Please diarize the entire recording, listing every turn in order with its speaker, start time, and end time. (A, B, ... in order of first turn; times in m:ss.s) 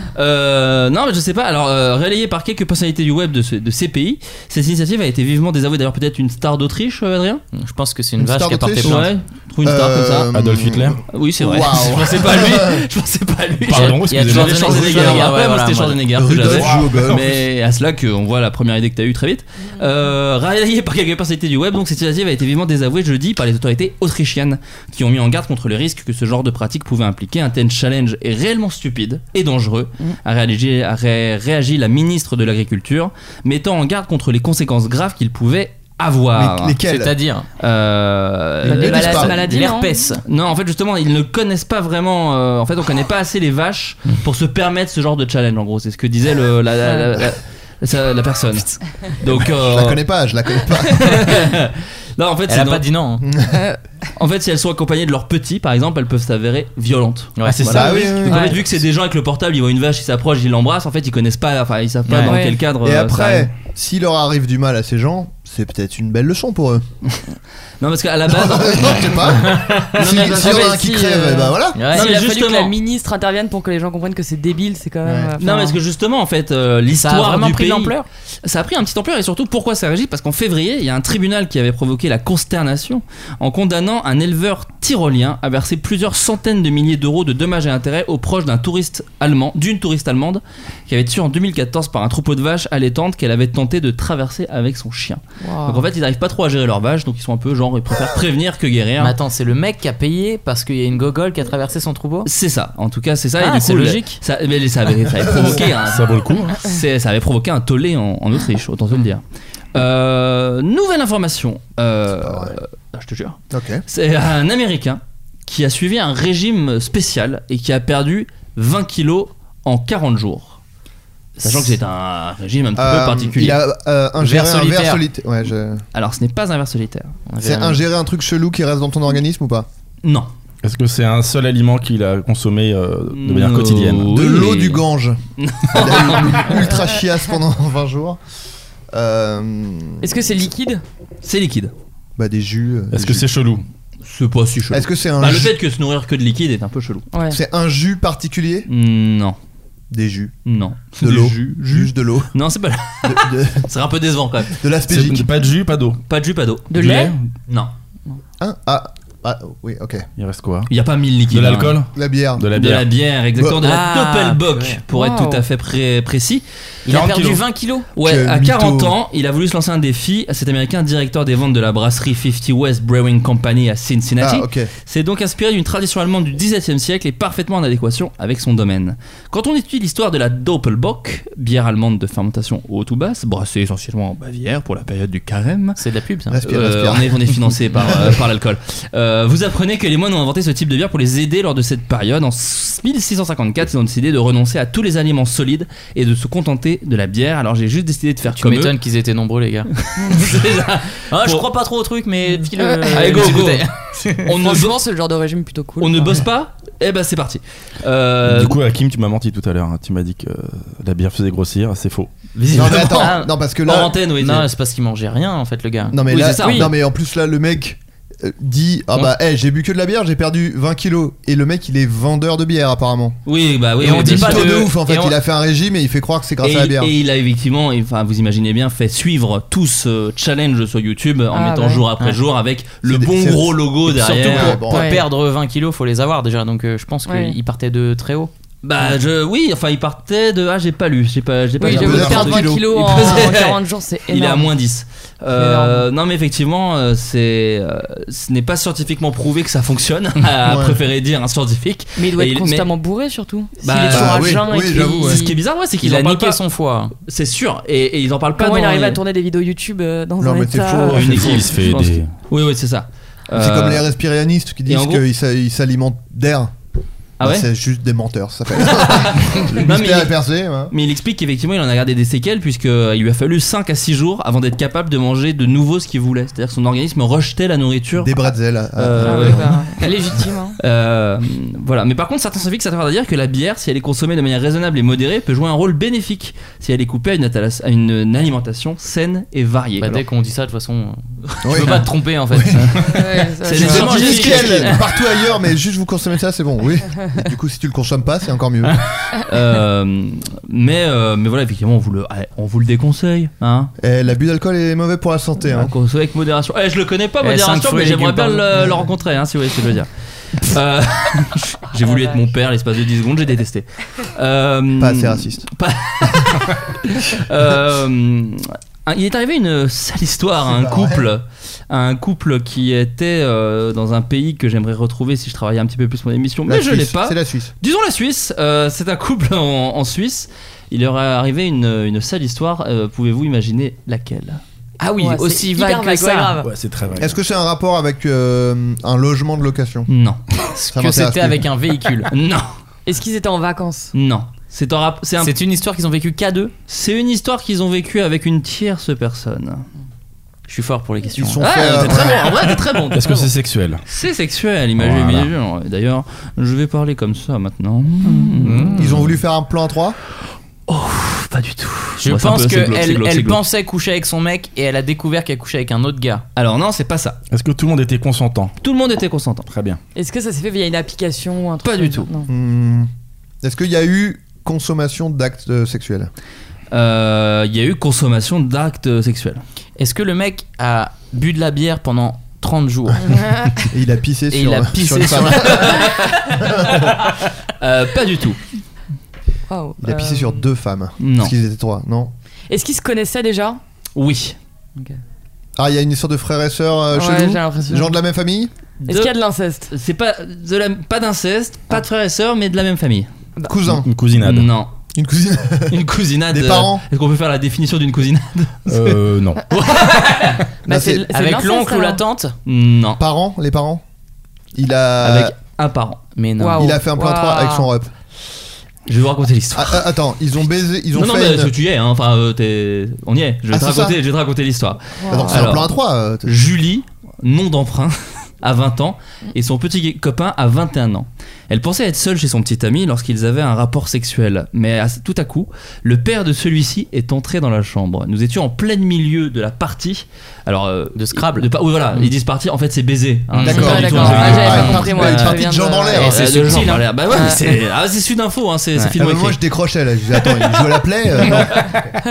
0:00.2-0:07.4 A
0:07.5-0:09.1 B
0:08.2-0:09.1 C
0:08.8-0:10.3 A
0:09.6-0:12.8 C
0:10.3-0:11.0 D
0:11.1-0:36.8 A
0:13.7-0:15.3 D
0:13.7-0:16.0 B
0:16.2-0:17.3 C
0:16.4-0:17.2 D
0:36.4-0:37.2 C
0:36.9-0:37.5 B
0:37.6-0:39.4 A
0:38.6-0:39.3 C
0:38.6-0:40.0 E
0:39.2-0:40.2 B
0:40.2-0:50.0 A
0:49.2-0:51.4 C
0:50.9-0:52.8 A
0:52.5-0:53.2 B
0:53.2-0:53.6 C
0:53.5-0:53.8 E
0:54.2-1:03.5 A
0:57.4-0:57.6 B
0:57.5-0:58.3 D
0:57.7-0:58.6 C
0:58.3-0:58.6 E
1:02.1-1:02.3 B
1:02.3-1:02.6 E
1:02.8-1:06.8 C
1:07.8-1:10.8 A
1:08.2-1:11.8 C
1:10.0-1:15.8 E
1:11.8-1:12.1 B
1:11.9-1:12.7 A
1:15.0-1:15.3 C
1:15.4-1:39.2 A
1:16.9-1:18.1 B
1:35.4-1:35.9 E
1:39.0-1:42.3 B
1:42.2-1:49.2 A
1:43.4-1:44.2 B
1:45.3-1:45.6 C
1:45.8-1:46.6 D
1:49.7-2:00.6 A
1:52.2-1:52.6 C
1:53.5-1:53.8 C
2:01.4-2:03.6 A
2:01.4-2:01.7 B
2:02.8-2:05.8 C
2:04.2-2:05.0 B
2:05.9-2:07.1 A
2:07.3-2:07.8 B
2:07.4-2:09.7 C
2:10.0-2:10.3 A
2:10.6-2:14.2 D
2:13.1-2:14.8 A
2:14.1-2:15.2 C
2:15.4-2:16.7 A
2:15.7-2:18.2 C
2:18.9-2:20.2 C
2:20.0-2:20.8 E
2:21.2-2:21.7 A
2:22.2-2:23.3 C
2:22.9-2:23.6 D
2:24.1-2:27.1 A
2:24.7-2:25.6 C
2:27.1-2:27.4 E
2:27.3-2:28.7 C
2:28.7-2:29.4 A
2:29.9-2:30.3 C
2:30.4-2:34.6 A
2:31.0-2:32.3 C
2:33.0-2:33.6 C
2:34.5-2:35.3 C
2:34.9-2:36.0 D
2:36.1-2:36.8 A
2:36.7-2:37.1 E
2:36.7-2:37.3 D
2:37.5-2:37.7 A
2:38.4-2:40.1 C
2:40.2-2:40.7 D
2:40.7-2:41.8 A
2:41.3-2:42.9 D
2:41.9-2:42.5 C
2:42.6-2:46.4 A
2:43.6-2:44.8 B
2:44.9-2:45.4 E
2:46.9-2:47.9 B
2:46.9-2:47.4 D
2:48.0-3:05.8 A
2:48.0-2:49.0 C
2:54.2-2:54.7 C
3:05.8-3:06.4 B
3:06.3-3:08.2 C
3:06.4-3:18.8 A
3:18.4-3:19.7 B
3:19.8-3:21.5 A
3:20.0-3:20.3 E
3:21.1-3:24.3 B
3:22.6-3:23.4 E
3:22.9-3:23.7 A
3:24.2-3:24.8 A
3:24.3-3:26.2 E
3:25.8-3:28.6 A
3:28.2-3:32.1 D
3:32.4-3:34.5 A
3:32.5-3:33.9 C
3:34.2-3:36.7 B
3:35.9-3:43.2 C
3:36.1-3:36.7 A
3:43.2-3:44.7 A
3:43.8-3:46.9 C
3:43.8-3:45.2 B
3:46.4-3:54.6 A
3:51.3-3:51.8 E
3:52.8-3:53.6 C
3:53.9-3:58.3 B
3:54.2-3:55.0 C
3:54.7-3:55.0 E
3:57.1-3:57.4 E
3:58.6-4:12.7 A
4:01.6-4:04.5 E
4:01.6-4:03.3 C
4:01.7-4:02.0 D
4:05.4-4:05.9 E
4:10.4-4:10.8 C
4:12.0-4:15.4 E
4:13.6-4:16.4 A
4:13.9-4:15.2 C
4:15.8-4:16.9 B
4:17.1-4:19.0 A
4:18.4-4:21.1 E
4:20.2-4:21.3 C
4:20.9-4:22.1 D
4:21.0-4:23.9 A
4:23.3-4:26.5 C
4:24.7-4:25.0 A
4:27.2-4:27.5 A
4:27.2-4:30.7 C
4:28.6-4:30.2 A
4:30.7-4:38.2 A
4:38.0-4:39.6 C
4:38.8-4:50.0 A
4:39.0-4:40.6 E
4:49.8-4:53.0 B
4:51.4-4:58.8 C
4:51.5-4:51.8 A
4:52.9-4:54.2 E
4:53.4-4:54.8 A
4:53.5-4:54.8 B
4:59.2-5:03.7 A
5:03.8-5:05.7 C
5:05.4-5:34.4 A
5:07.2-5:08.7 B
5:14.8-5:15.4 C
5:20.4-5:21.1 C
5:26.5-5:27.5 C
5:34.8-5:36.4 B
5:35.0-5:36.5 E
5:36.4-5:37.1 D
5:37.0-5:39.9 C
5:39.9-5:40.2 A
5:40.5-5:42.1 B
5:40.7-5:41.4 C
5:42.1-5:42.5 A
5:42.8-5:43.9 E
5:43.9-5:45.3 A
5:45.2-5:46.5 B
5:46.7-5:49.6 A
5:50.5-5:51.5 B
5:51.1-5:52.3 C
5:51.4-5:53.3 A
5:52.9-5:53.8 D
5:53.9-5:58.9 A
5:54.8-5:55.3 D
5:58.4-5:58.8 B
5:58.5-5:59.0 D
5:58.8-6:00.0 C
6:00.7-6:03.4 A
6:02.0-6:06.2 B
6:06.4-6:07.2 A
6:07.3-6:08.5 D
6:08.6-6:09.5 A
6:09.5-6:09.8 D
6:10.0-6:12.3 E
6:11.6-6:12.1 A
6:12.3-6:12.9 C
6:13.4-6:16.1 C
6:16.7-6:19.4 A
6:19.8-6:23.1 B
6:23.2-6:23.5 E
6:23.7-6:25.9 C
6:24.3-6:25.8 B
6:25.6-6:26.2 A
6:26.4-6:26.9 C
6:27.6-6:28.4 A
6:29.5-6:30.4 E
6:29.8-6:32.1 C
6:31.0-6:31.3 A
6:32.5-6:33.6 E
6:34.0-6:34.4 A
6:35.6-6:38.5 C
6:36.9-6:38.0 E
6:38.8-6:39.1 A
6:38.9-6:39.7 E
6:39.7-6:43.1 A
6:43.4-6:43.9 C
6:43.7-6:44.5 D
6:44.2-6:44.7 A
6:44.9-6:46.8 C
6:45.7-6:50.4 A
6:48.7-6:49.5 D
6:50.6-6:52.0 E
6:50.7-6:51.1 C
6:51.1-6:52.3 B
6:52.4-6:53.0 A
6:53.0-6:53.8 C
6:54.6-6:55.3 C
6:55.0-6:56.0 A
6:56.1-6:56.7 B
6:56.4-6:57.7 E
6:56.6-6:57.9 C
6:58.9-6:59.9 A
6:59.5-7:01.5 C
7:00.9-7:05.7 A
7:03.5-7:04.0 C
7:05.0-7:05.6 E
7:05.1-7:06.3 C
7:06.2-7:25.4 A
7:21.0-7:22.1 B
7:23.3-7:24.1 B
7:23.4-7:26.6 C
7:23.5-7:26.2 E
7:24.1-7:24.5 D
7:25.9-7:26.9 B
7:25.9-7:29.4 A
7:27.1-7:27.6 E
7:28.9-7:31.9 C
7:31.2-7:31.8 A